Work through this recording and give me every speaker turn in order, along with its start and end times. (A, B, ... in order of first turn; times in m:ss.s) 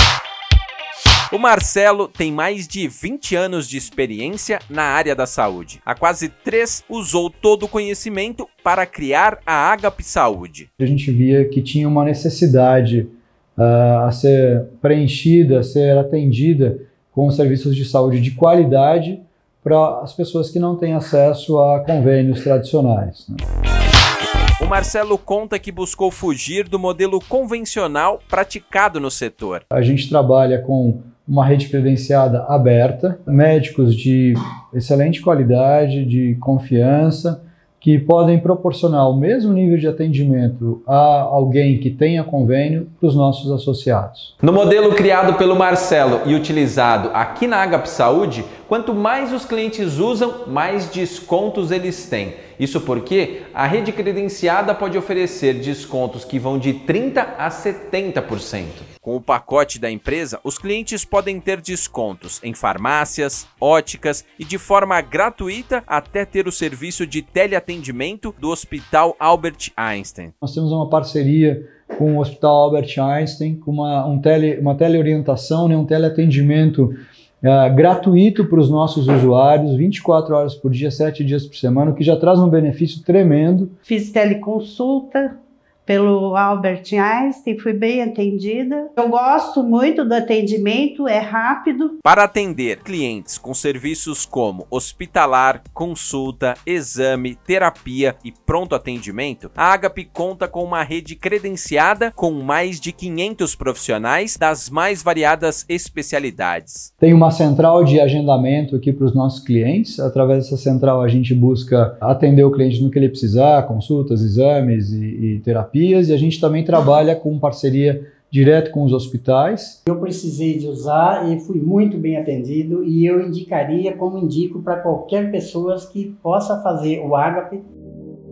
0:01.3-0:10.7 A
0:10.8-0:23.4 B
0:24.6-0:29.6 A
0:29.7-0:44.3 B
0:44.4-1:10.3 A
1:10.4-1:23.7 B
1:23.9-1:25.3 C
1:25.8-1:31.9 C
1:32.0-1:46.9 A
1:47.0-1:59.8 B
1:59.9-2:07.6 D